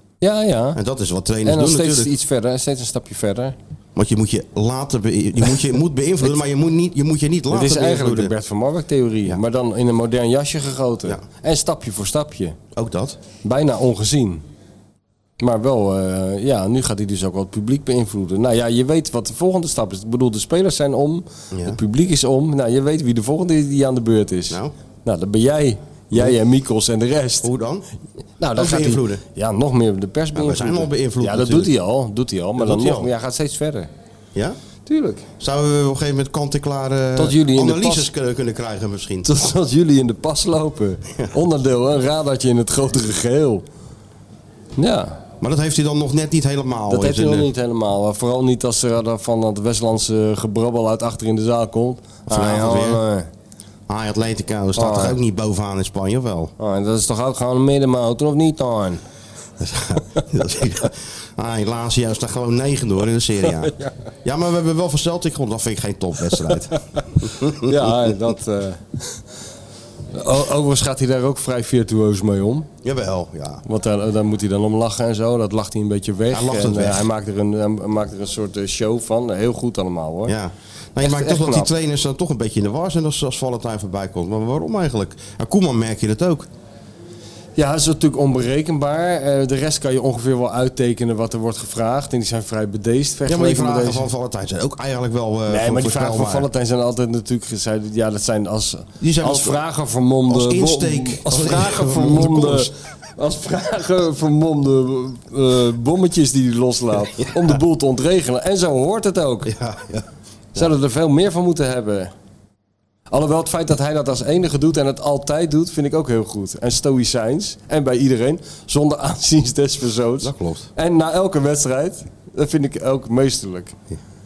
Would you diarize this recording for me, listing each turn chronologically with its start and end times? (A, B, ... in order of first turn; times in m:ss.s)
0:00.2-0:00.8 A
0:00.7-0:02.1 B
0:01.4-0:03.6 A
0:03.9-0:08.3 B
0:07.5-0:12.6 A
0:12.8-0:13.2 B
0:13.4-0:14.4 A
0:15.4-0:27.5 A
0:21.5-0:21.8 B
0:27.4-0:27.8 B
0:28.4-0:33.9 A
0:28.6-0:29.2 B
0:30.3-0:31.7 B
0:32.6-0:33.1 B
0:34.9-0:35.2 A
0:35.4-0:39.3 B
0:37.2-0:38.1 A
0:39.2-0:43.6 A
0:44.8-0:45.2 A
0:45.4-0:47.5 B
0:46.9-0:53.3 A
0:52.3-0:53.0 B
0:53.9-0:56.5 B
0:54.8-0:55.2 A
0:56.6-0:59.0 A
0:59.6-1:08.1 B
1:03.4-1:03.9 A
1:06.4-1:06.8 A
1:07.6-1:09.2 A
1:10.1-1:12.7 A
1:12.8-1:13.6 B
1:13.6-1:20.3 A
1:16.3-1:17.1 B
1:20.2-1:26.5 B
1:21.0-1:21.7 A
1:27.6-1:34.1 A
1:33.2-1:36.5 B
1:35.5-1:49.5 A
1:39.0-1:39.6 B
1:40.3-1:42.7 B
1:49.4-1:50.7 B
1:50.6-1:52.1 A
1:53.1-2:03.8 A
2:00.2-2:00.7 B